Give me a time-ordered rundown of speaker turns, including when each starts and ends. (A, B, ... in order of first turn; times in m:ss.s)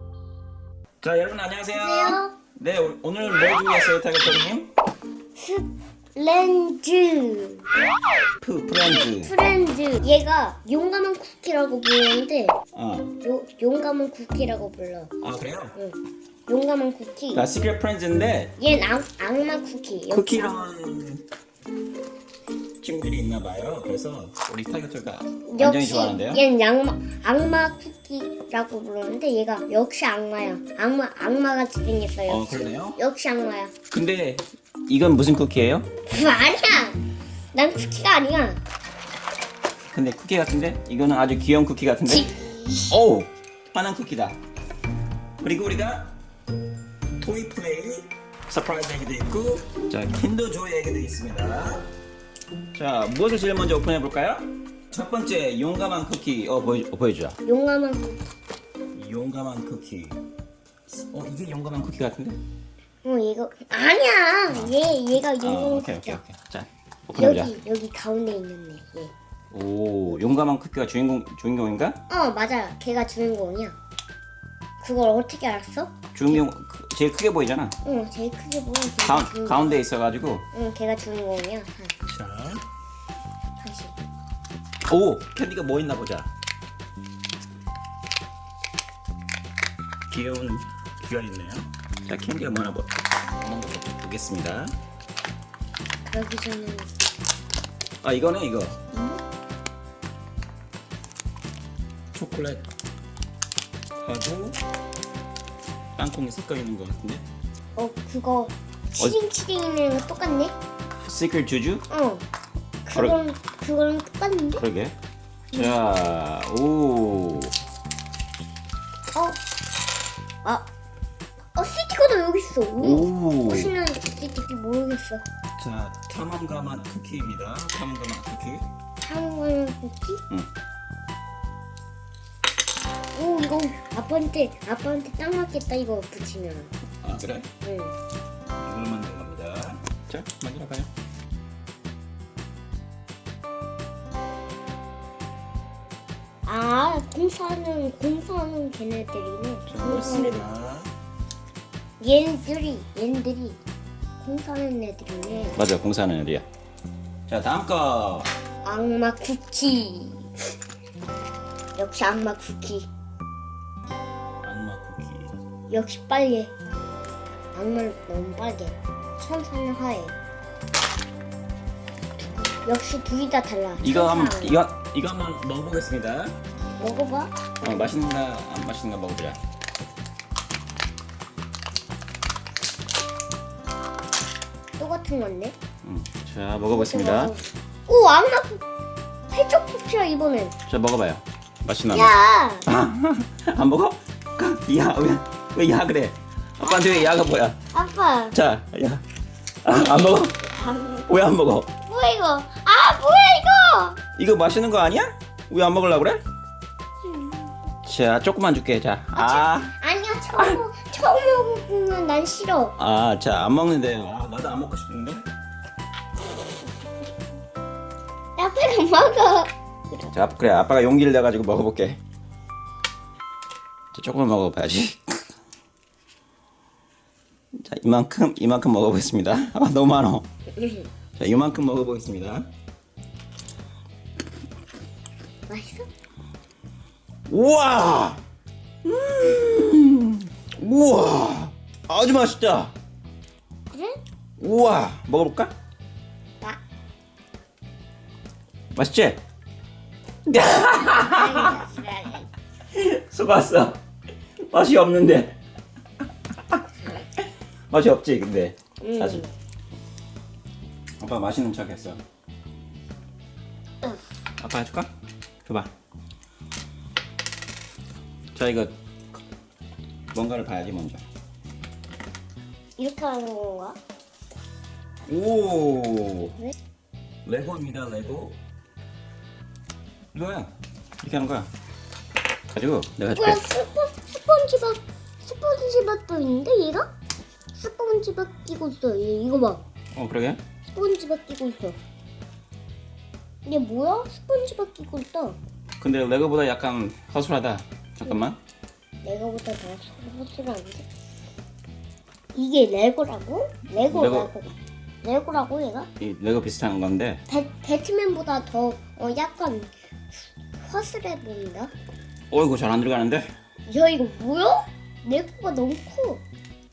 0:01.0-0:04.7 A
0:01.7-0:02.3 B
0:05.4-0:07.7 B
0:08.4-0:09.4 A
0:08.9-0:12.6 B
0:12.7-0:13.1 A
0:13.2-0:15.1 B
0:15.2-0:15.8 A
0:15.8-0:17.5 B
0:17.3-0:18.5 A
0:18.6-0:20.5 B
0:20.1-0:21.3 A
0:22.8-0:26.4 A
0:25.5-0:33.7 B
0:32.3-0:33.0 A
0:33.9-0:35.9 A
0:36.1-0:37.0 B
0:37.5-0:38.6 B
0:39.9-0:44.4 A
0:42.3-0:42.9 B
0:45.4-0:46.1 A
0:47.2-0:51.9 A
0:52.7-0:57.4 A
0:57.5-0:58.2 B
0:58.9-1:00.2 A
1:00.9-1:02.4 A
1:03.0-1:06.2 B
1:04.5-1:04.8 A
1:05.4-1:07.6 A
1:07.1-1:09.1 B
1:09.5-1:12.0 A
1:12.1-1:13.8 B
1:14.8-1:16.4 B
1:16.1-1:17.8 A
1:17.8-1:19.8 B
1:19.0-1:20.5 A
1:20.5-1:22.1 B
1:22.1-1:22.6 A
1:23.6-1:24.0 B
1:24.9-1:26.3 A
1:30.1-1:34.7 A
1:36.1-1:36.9 B
1:38.0-1:38.8 A
1:38.9-1:39.2 B
1:42.1-1:42.6 A
1:44.0-1:44.6 A
1:46.0-1:47.2 A
1:47.8-1:50.6 B
1:51.0-1:51.9 A
1:51.9-1:52.2 B
1:52.9-1:54.6 B
1:54.6-1:55.0 A
1:55.5-1:57.5 A
1:59.1-1:59.4 B
2:01.6-2:05.3 B
2:02.8-2:03.7 A
2:05.6-2:08.7 A
2:09.0-2:10.2 B
2:13.1-2:16.7 B
2:17.0-2:17.5 A
2:17.6-2:18.0 B
2:18.6-2:20.9 A
2:26.4-2:30.4 B
2:29.7-2:30.9 A
2:32.0-2:33.6 B
2:34.2-2:35.6 B
2:35.6-2:36.4 A
2:37.3-2:38.3 A
2:38.6-2:40.4 B
2:41.8-2:42.9 B
2:44.4-2:45.3 A
2:45.7-2:46.5 B
2:47.5-2:50.2 B
2:52.6-2:54.6 B
2:53.8-2:56.4 A
2:56.8-2:57.9 B
2:57.6-2:59.4 A
3:04.8-3:05.6 B
3:05.8-3:07.3 A
3:06.7-3:08.6 B
3:09.3-3:10.6 B
3:10.7-3:12.2 A
3:11.9-3:12.7 B
3:12.7-3:17.6 A
3:16.6-3:17.2 B
3:17.7-3:18.4 B
3:18.3-3:19.0 A
3:19.6-3:20.5 A
3:20.4-3:21.1 B
3:21.0-3:21.7 A
3:21.8-3:24.0 B
3:24.2-3:26.2 A
3:27.8-3:29.7 A
3:29.2-3:32.8 B
3:32.8-3:35.2 A
3:38.4-3:39.5 B
3:40.1-3:42.0 A
3:43.9-3:45.2 A
3:47.5-3:50.3 A
3:50.6-3:50.9 B
3:51.2-3:52.5 A
3:55.5-3:55.9 B
3:57.3-3:58.2 A
3:58.8-4:02.7 A
4:03.7-4:04.0 B
4:04.4-4:05.5 A
4:08.8-4:09.2 A
4:10.3-4:11.6 A
4:10.9-4:12.3 B
4:12.7-4:13.8 A
4:14.5-4:15.4 A
4:17.2-4:19.3 A
4:18.8-4:19.3 B
4:21.0-4:22.0 A
4:24.4-4:24.9 A
4:25.4-4:25.7 A
4:28.4-4:28.7 A
4:30.1-4:31.0 A
4:32.8-4:33.8 B
4:35.1-4:36.4 A
4:37.2-4:38.4 A
4:40.1-4:41.5 A
4:42.5-4:43.4 A
4:43.2-4:46.9 B
4:47.5-4:49.6 B
4:49.9-4:50.4 A
4:50.7-4:51.8 B
4:53.4-4:55.4 B
4:55.8-4:58.4 A
4:59.0-5:00.9 B
5:02.3-5:05.9 B
5:03.8-5:04.3 A
5:06.0-5:07.2 A
5:07.3-5:11.7 B
5:12.3-5:13.3 A
5:13.7-5:16.2 B